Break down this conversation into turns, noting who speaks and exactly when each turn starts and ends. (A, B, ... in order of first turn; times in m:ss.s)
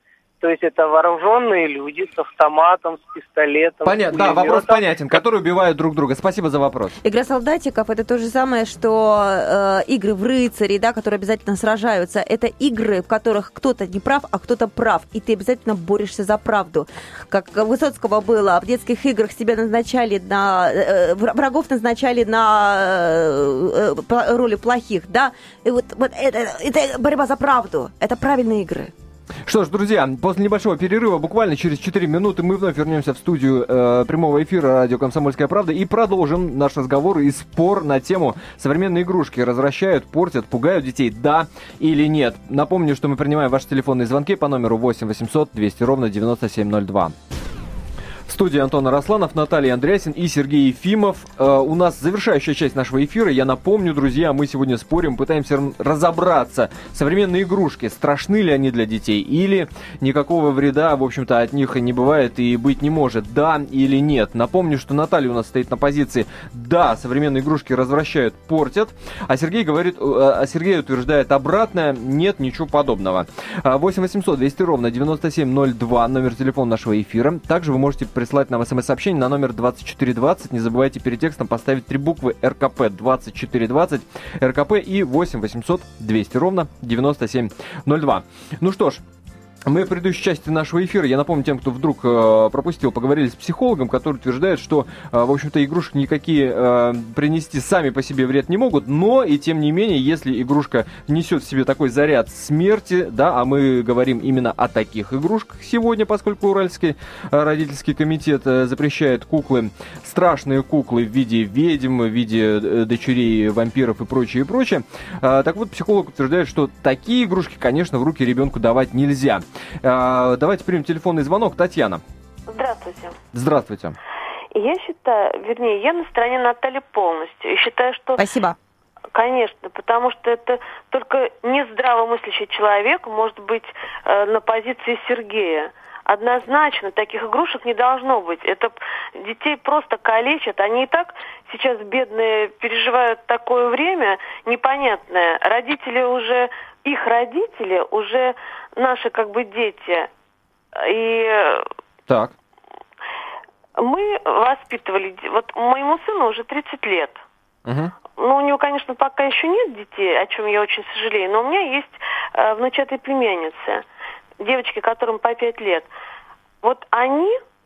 0:00.4-0:04.8 A
0:03.8-0:06.9 B
0:07.0-0:28.9 C
0:29.4-0:47.1 B
0:48.3-1:29.0 B
1:29.7-2:02.0 B
2:02.5-2:03.2 D
2:03.3-2:04.0 B
2:04.5-2:08.2 D
2:08.2-2:08.6 C
2:09.1-2:30.1 D
2:30.8-2:31.7 D
2:32.1-2:32.3 B
2:33.8-2:37.2 D
2:37.6-2:37.9 B
2:38.2-2:43.8 D
2:44.4-2:45.9 D
2:46.6-2:47.4 D